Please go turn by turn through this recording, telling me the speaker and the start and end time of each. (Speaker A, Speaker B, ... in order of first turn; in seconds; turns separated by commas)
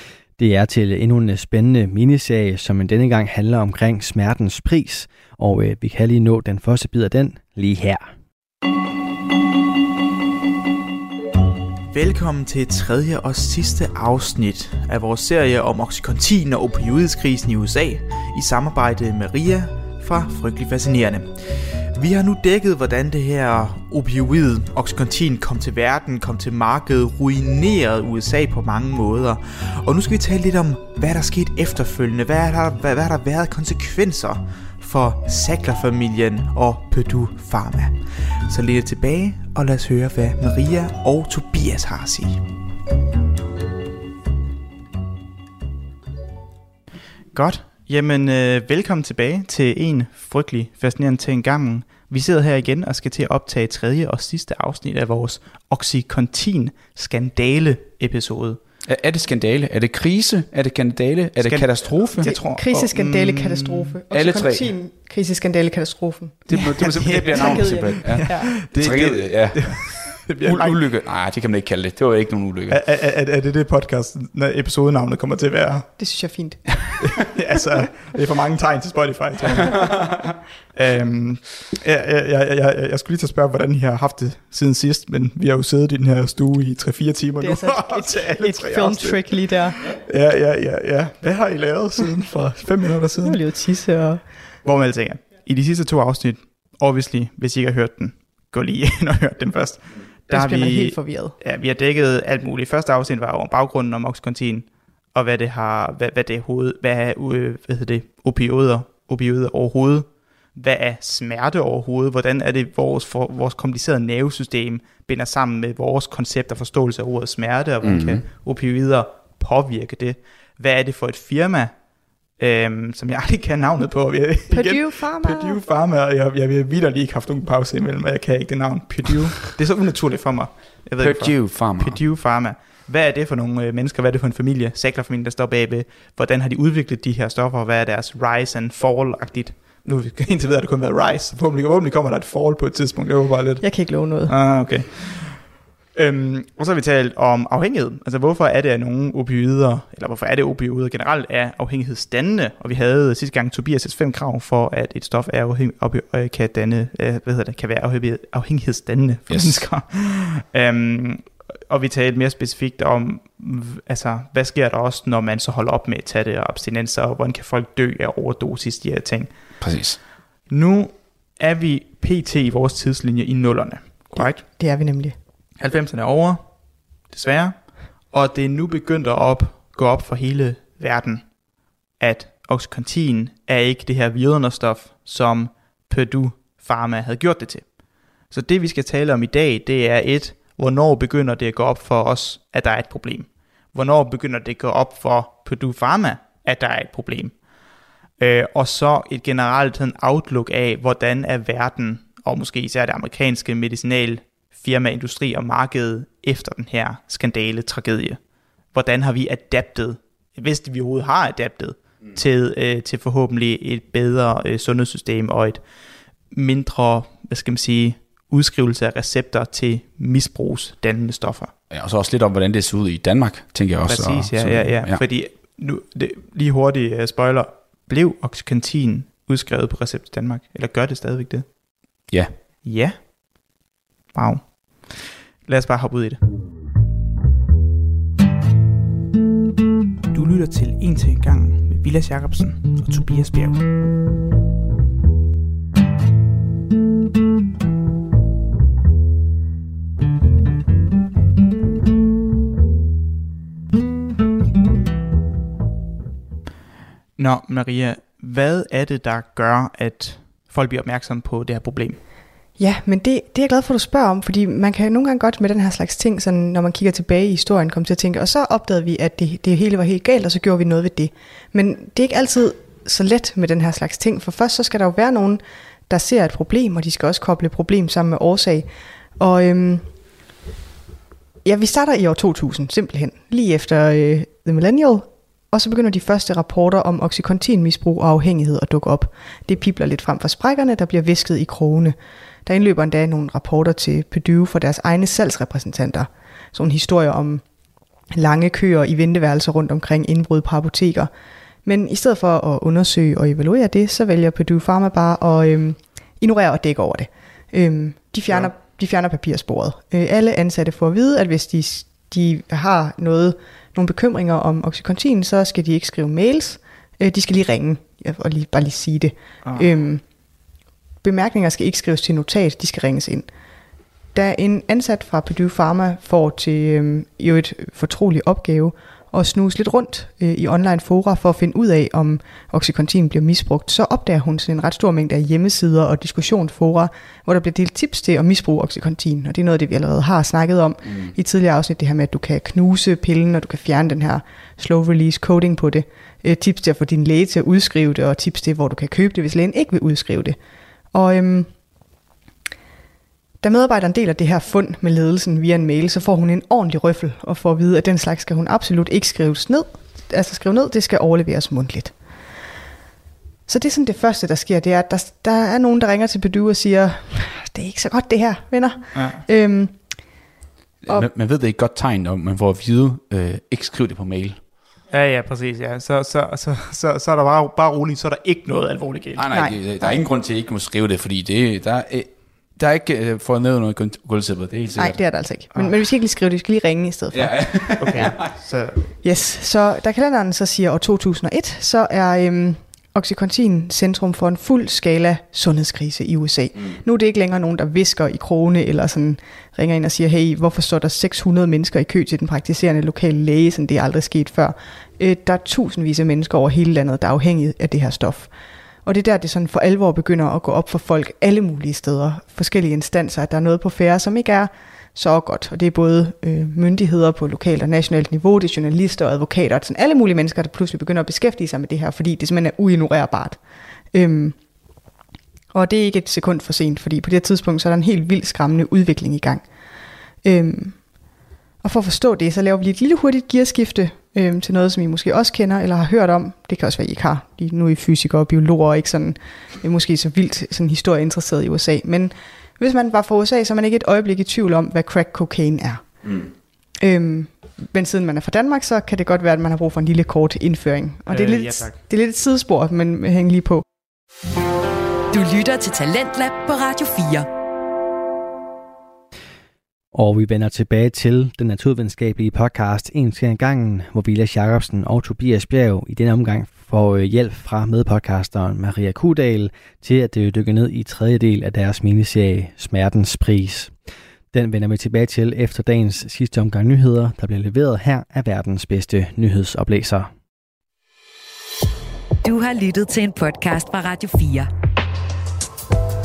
Speaker A: 0.4-8.1, Speaker B: 11.9-42.4, Speaker B: 47.3-58.6, Speaker C: 58.9-62.4, Speaker B: 61.4-64.0, Speaker D: 62.2-68.7, Speaker C: 64.1-64.7, Speaker C: 66.5-72.8, Speaker B: 66.5-70.9, Speaker B: 72.7-75.9, Speaker D: 76.0-76.7, Speaker B: 76.7-93.4, Speaker D: 87.4-89.8, Speaker D: 93.2-94.2, Speaker B: 94.6-121.8, Speaker D: 100.3-101.4, Speaker C: 117.8-118.3, Speaker B: 122.4-143.6, Speaker D: 124.5-125.7, Speaker C: 131.0-132.1, Speaker D: 143.6-144.3, Speaker B: 144.3-169.3, Speaker C: 159.3-159.7, Speaker C: 169.6-170.0, Speaker B: 170.5-174.5, Speaker D: 174.2-175.2, Speaker B: 175.6-181.4, Speaker B: 181.9-187.8, Speaker B: 188.3-197.4, Speaker B: 198.2-208.2, Speaker B: 208.7-215.7, Speaker B: 216.3-221.5, Speaker C: 221.7-225.1, Speaker B: 223.9-231.5, Speaker C: 232.1-232.4, Speaker B: 232.6-233.0, Speaker B: 234.1-236.2, Speaker B: 240.1-243.7, Speaker B: 257.2-262.0, Speaker D: 262.6-279.9, Speaker D: 281.4-297.4, Speaker D: 298.1-301.1, Speaker D: 301.6-320.0, Speaker B: 319.4-319.7, Speaker D: 321.0-323.3, Speaker D: 324.1-350.4, Speaker C: 340.9-341.1, Speaker D: 350.9-351.5, Speaker D: 353.4-361.9, Speaker D: 363.5-369.8, Speaker B: 368.9-369.2, Speaker C: 370.8-374.4, Speaker B: 374.9-379.3, Speaker C: 379.1-385.0, Speaker D: 379.3-380.0, Speaker D: 384.8-388.3, Speaker C: 387.1-388.4, Speaker B: 387.8-388.9, Speaker D: 389.0-408.3, Speaker D: 408.9-423.4, Speaker D: 423.9-424.4, Speaker D: 425.5-429.5, Speaker D: 430.2-430.9, Speaker D: 431.6-445.9, Speaker D: 446.8-453.6, Speaker B: 451.1-451.8, Speaker E: 455.1-457.3, Speaker A: 459.9-473.7, Speaker A: 474.3-480.1, Speaker E: 482.2-484.5